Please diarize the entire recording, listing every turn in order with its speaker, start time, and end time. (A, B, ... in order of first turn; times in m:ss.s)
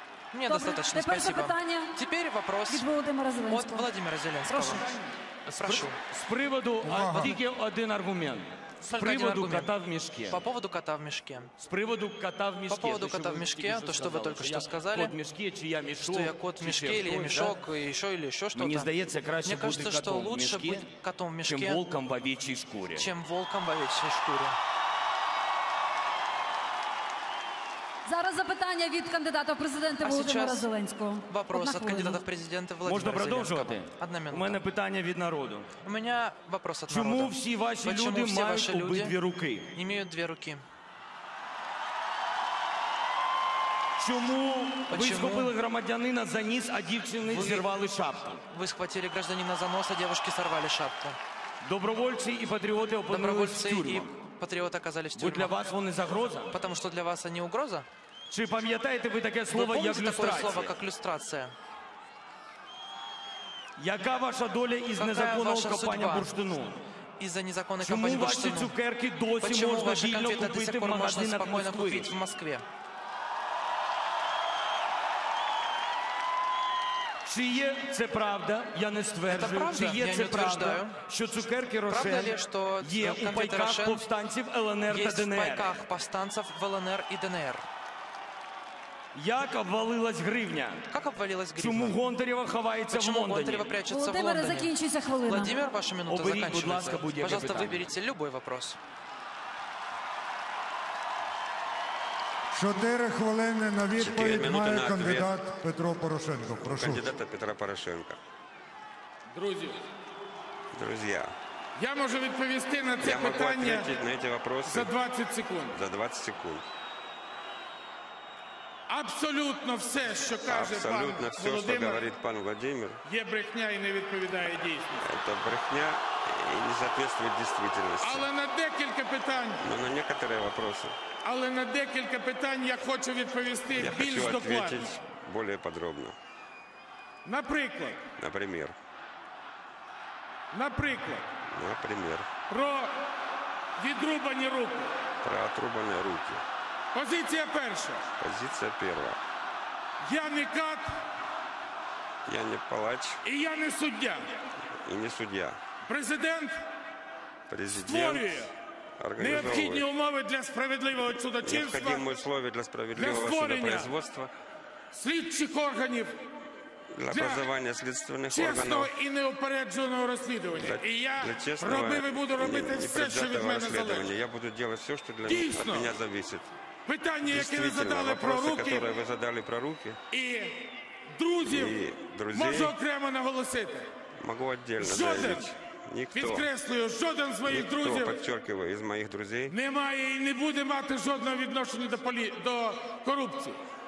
0:00.3-0:02.9 A
0:00.5-0:01.9 B
0:02.7-0:03.9 B
0:03.5-0:04.9 A
0:04.5-0:10.4 C
0:05.6-0:06.0 A
0:06.8-0:07.4 D
0:08.8-0:09.7 A
0:10.3-0:11.5 A
0:11.6-0:17.6 C
0:12.7-0:15.2 A
0:16.0-0:18.9 A
0:18.5-0:20.9 C
0:19.4-0:21.8 A
0:21.5-0:23.1 C
0:23.0-0:24.6 A
0:28.0-0:32.2 B
0:30.0-0:30.7 A
0:31.3-0:34.6 A
0:32.8-0:35.7 C
0:35.8-0:39.2 A
0:36.9-0:39.7 C
0:39.7-0:40.6 A
0:44.0-0:48.4 C
0:44.9-0:45.5 A
0:47.2-0:47.7 A
0:48.5-0:51.2 A
0:51.6-0:54.1 C
0:53.1-0:55.5 A
0:55.2-0:56.6 C
0:56.5-0:57.9 A
0:58.3-1:00.8 C
0:59.5-1:01.5 A
1:03.8-1:06.8 C
1:05.0-1:06.3 A
1:07.2-1:08.8 A
1:07.8-1:12.2 C
1:09.4-1:12.6 A
1:17.2-1:25.7 C
1:19.3-1:21.0 A
1:21.9-1:24.0 A
1:24.9-1:27.6 A
1:29.2-1:30.9 C
1:30.9-1:32.0 A
1:31.6-1:33.7 C
1:32.9-1:34.7 A
1:33.8-1:35.6 B
1:35.2-1:38.8 A
1:36.1-1:37.9 C
1:42.5-1:47.1 D
1:44.0-1:45.4 E
1:46.6-1:48.2 E
1:49.3-1:49.8 F
1:50.7-1:51.4 E
1:51.8-1:53.9 F
1:53.0-1:54.9 E
1:54.7-1:55.8 F
1:55.7-1:56.7 E
1:58.9-2:02.1 F
2:00.4-2:03.0 E
2:03.1-2:05.0 F
2:05.0-2:08.3 E
2:08.0-2:09.6 F
2:09.6-2:11.0 E
2:11.2-2:14.9 F
2:13.8-2:16.2 E
2:17.2-2:18.0 F
2:18.2-2:18.8 E
2:20.5-2:21.3 F
2:21.5-2:22.3 E
2:22.5-2:22.9 F
2:23.8-2:24.9 F
2:25.2-2:26.4 E
2:26.9-2:28.0 F
2:28.2-2:29.2 E
2:30.0-2:30.9 F
2:32.3-2:33.2 E
2:33.2-2:34.3 F
2:34.8-2:35.6 E
2:35.9-2:36.6 F
2:37.5-2:38.5 E
2:37.7-2:38.5 F
2:39.0-2:39.9 E
2:39.2-2:42.0 F
2:41.4-2:44.3 E
2:43.0-2:43.9 F
2:44.9-2:46.2 F
2:46.9-2:48.9 E
2:47.1-2:47.5 F
2:48.3-2:54.1 F
2:50.6-2:56.5 E
2:55.2-2:56.0 F
2:56.9-2:58.9 F
2:57.2-3:00.0 E
3:00.1-3:01.8 F
3:01.5-3:02.8 E
3:02.3-3:03.9 F
3:04.2-3:06.5 E
3:04.8-3:05.5 F
3:06.1-3:08.2 F
3:07.5-3:09.6 E
3:09.5-3:13.6 F